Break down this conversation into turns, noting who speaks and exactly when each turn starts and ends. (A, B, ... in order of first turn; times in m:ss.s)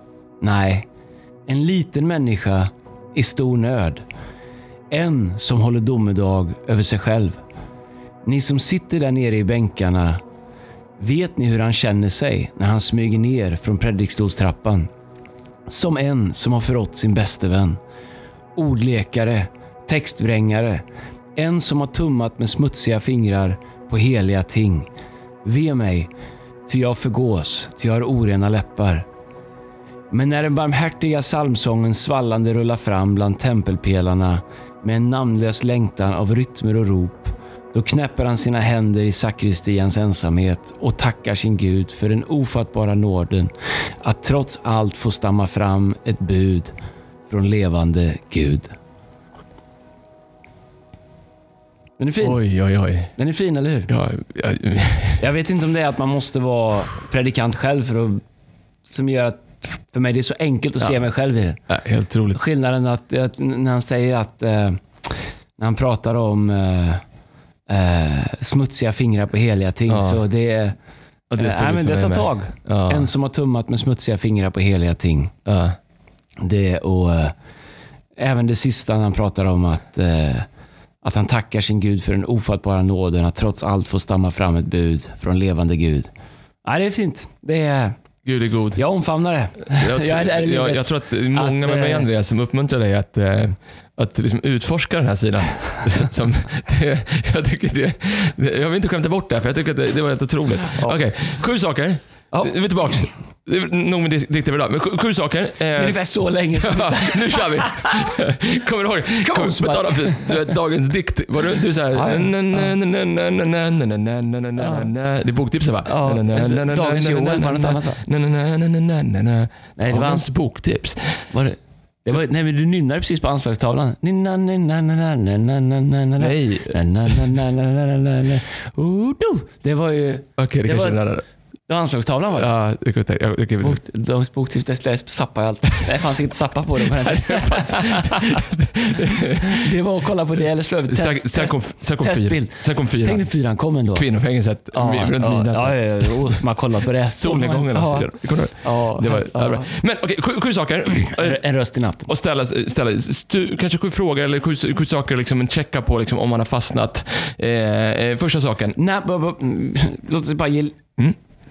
0:00.4-0:00.9 A
0:01.5-0:04.0 A
0:04.9-0:07.4 A
0:08.2-0:10.2 A
0:11.0-0:14.9 A
0:15.7-0:17.8 A
0:18.6-0:20.8 A
0:21.4-0:24.9 A
0:25.4-0:26.1 A
0:26.7-0:29.1 A
0:30.1-0:43.5 A
0:44.0-0:46.7 A
0:47.3-0:48.7 A
0:52.0-0:52.4 A
0:52.2-0:53.1 B
0:53.2-0:53.9 A
0:53.9-0:55.2 B
0:55.2-0:58.2 A
0:58.9-1:01.6 A
1:01.7-1:02.4 B
1:02.3-1:04.8 A
1:05.6-1:07.0 A
1:07.7-1:10.8 A
1:09.9-1:10.2 B
1:11.3-1:13.1 B
1:11.4-1:15.3 A
1:15.5-1:15.8 B
1:16.4-1:17.3 A
1:18.2-1:20.5 A
1:21.0-1:26.1 A
1:26.6-1:28.0 A
1:28.2-1:28.8 B
1:28.8-1:32.1 A
1:29.7-1:46.0 B
1:45.8-1:48.1 A
1:46.6-2:01.3 B
1:49.2-1:50.6 A
1:51.9-1:52.7 A
1:54.6-1:54.9 A
1:55.8-1:58.0 A
1:59.8-2:00.3 A
2:01.3-2:11.0 A
2:06.2-2:06.8 B
2:10.4-2:11.2 B
2:11.7-2:12.5 A
2:12.3-2:13.8 B
2:13.6-2:18.4 A
2:17.0-2:19.7 B
2:19.4-2:24.1 A
2:20.9-2:23.3 B
2:23.9-2:26.4 B
2:24.7-2:29.7 A
2:27.2-2:31.4 B
2:31.1-2:32.1 A
2:32.1-2:38.8 B
2:38.8-2:40.8 A